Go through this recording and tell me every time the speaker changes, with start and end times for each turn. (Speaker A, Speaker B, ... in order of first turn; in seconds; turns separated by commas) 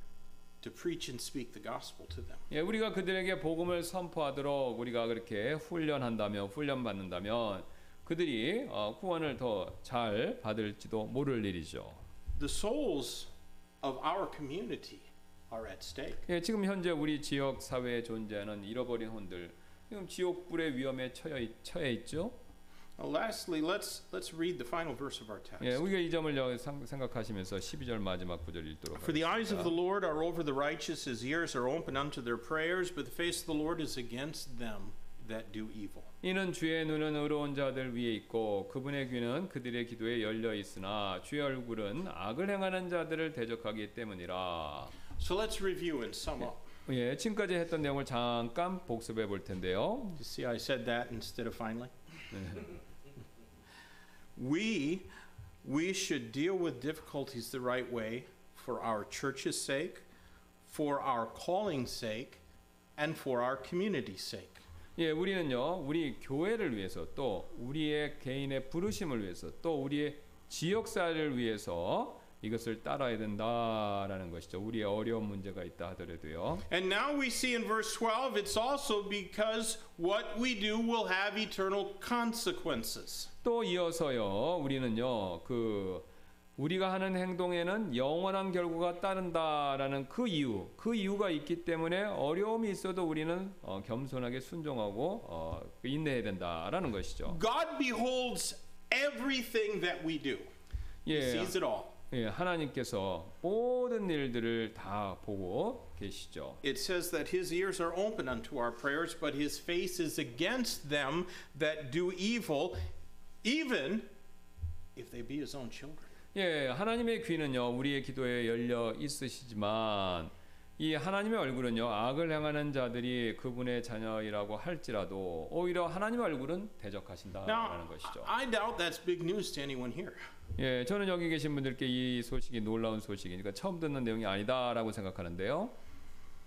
Speaker A: 0.6-2.4, Speaker B: 2.5-12.0, Speaker A: 12.3-13.3, Speaker A: 13.8-16.2, Speaker B: 16.3-22.3, Speaker A: 23.0-25.8, Speaker B: 25.6-29.7, Speaker A: 28.9-36.1, Speaker B: 36.2-44.9, Speaker A: 45.2-46.6, Speaker B: 46.9-50.2, Speaker A: 50.2-51.9, Speaker B: 52.3-52.7, Speaker A: 54.4-55.1, Speaker A: 55.6-60.0, Speaker A: 60.6-62.4, Speaker A: 63.0-64.6, Speaker B: 65.0-76.6, Speaker A: 76.7-83.3, Speaker B: 83.4-86.0, Speaker B: 86.6-97.4, Speaker A: 97.3-100.5, Speaker B: 101.0-101.5, Speaker A: 101.1-101.9, Speaker B: 102.1-106.6, Speaker A: 106.6-112.8, Speaker A: 113.4-114.1, Speaker A: 114.9-116.1, Speaker B: 116.3-128.3, Speaker A: 127.4-130.2, Speaker B: 130.6-135.7